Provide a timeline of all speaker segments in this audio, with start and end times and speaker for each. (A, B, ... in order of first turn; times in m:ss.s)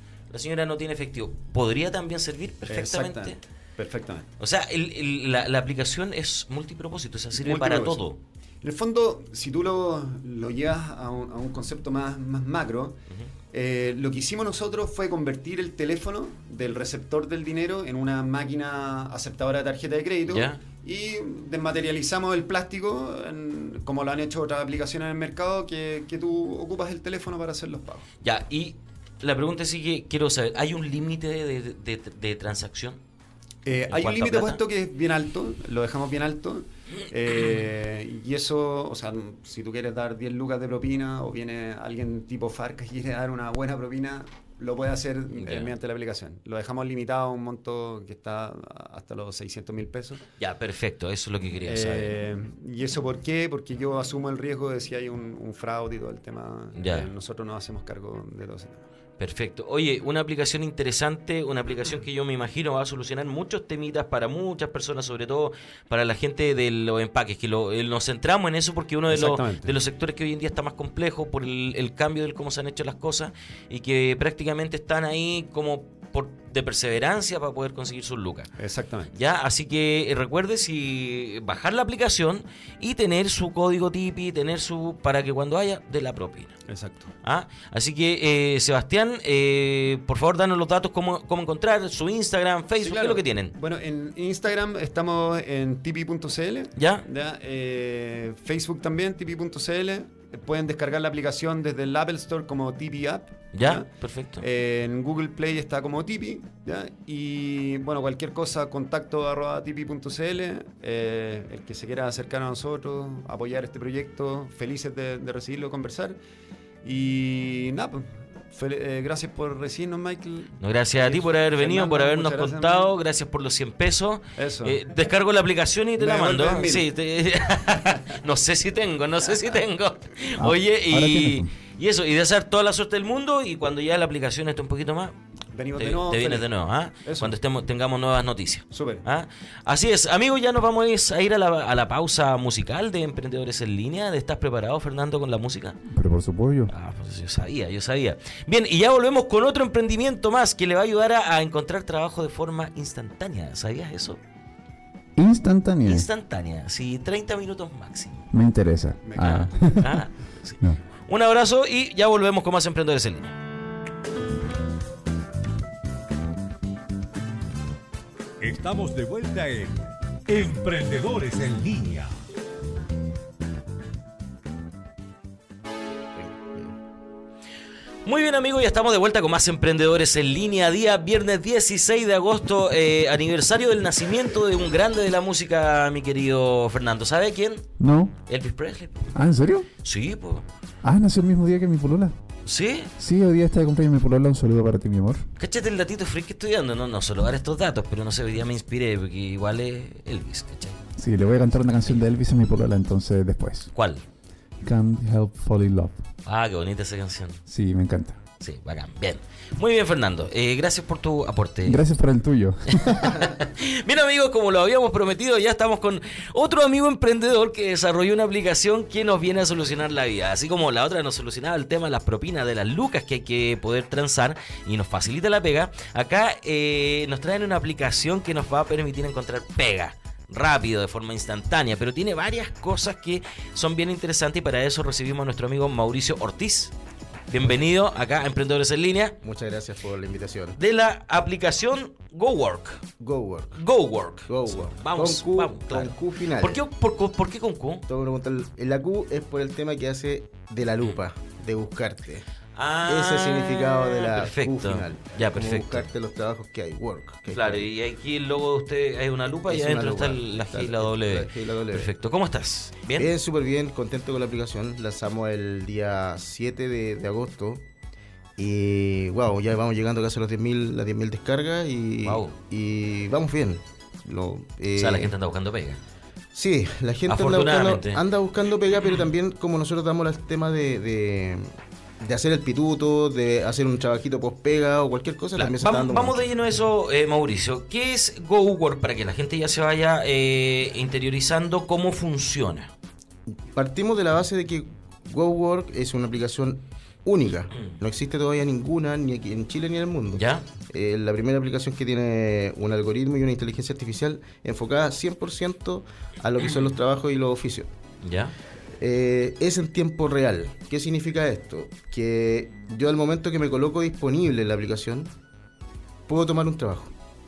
0:00.3-0:03.4 A
0:02.7-0:04.3 B
0:04.4-0:08.2 A
0:07.3-0:08.0 B
0:08.6-0:13.0 B
0:13.5-0:28.1 B
0:20.3-0:20.6 A
0:28.2-0:33.0 A
0:33.6-0:50.2 B
0:33.9-0:34.6 A
0:45.4-0:45.7 A
0:50.4-0:52.2 A
0:51.7-0:58.9 B
0:56.8-0:57.1 A
0:59.2-1:18.5 A
1:09.1-1:09.7 B
1:18.6-1:19.1 B
1:19.1-1:26.6 A
1:26.7-1:27.1 B
1:27.2-1:33.5 A
1:32.8-1:56.2 B
1:36.8-1:37.0 A
1:43.5-1:44.4 A
1:56.8-2:02.9 B
2:00.6-2:15.2 A
2:04.4-2:04.8 B
2:06.0-2:06.9 B
2:10.4-2:11.5 C
2:15.5-2:16.5 B
2:15.8-2:25.8 A
2:17.0-2:17.4 B
2:18.7-2:19.0 B
2:25.9-2:26.7 C
2:26.7-2:34.2 A
2:35.2-2:36.1 C
2:35.9-2:38.2 A
2:38.3-2:40.0 C
2:39.0-2:39.5 B
2:39.2-2:43.4 A
2:48.4-2:52.1 D
2:56.2-2:56.7 E
2:58.0-3:07.7 A
3:07.8-3:08.2 C
3:08.3-3:09.1 A
3:09.1-3:09.7 C
3:09.8-3:10.5 A
3:10.8-3:12.2 C
3:12.4-3:12.9 A
3:13.0-3:15.2 C
3:15.4-3:20.8 A
3:21.0-3:23.7 C
3:23.7-3:24.0 A
3:24.6-3:26.0 C
3:26.2-3:27.4 A
3:27.5-3:28.2 C
3:28.4-3:31.8 A
3:31.6-3:33.2 C
3:32.7-3:56.7 A
3:57.3-3:59.2 A
3:59.2-4:00.6 E
4:00.6-4:02.8 A
4:03.0-4:03.6 E
4:03.6-4:07.9 A
4:04.3-4:06.6 E
4:07.9-4:12.3 E
4:12.6-4:15.9 A
4:12.9-4:17.7 E
4:17.3-4:23.1 A
4:19.5-4:21.9 E
4:23.0-4:27.6 E
4:28.4-4:35.1 E
4:32.0-4:32.4 A
4:34.8-4:35.8 A
4:36.3-4:46.2 E
4:37.1-4:38.0 A
4:45.4-4:52.7 A
4:53.5-5:07.7 E
5:00.2-5:00.5 A
5:08.0-5:08.4 A
5:08.8-5:15.1 E
5:16.1-5:16.9 E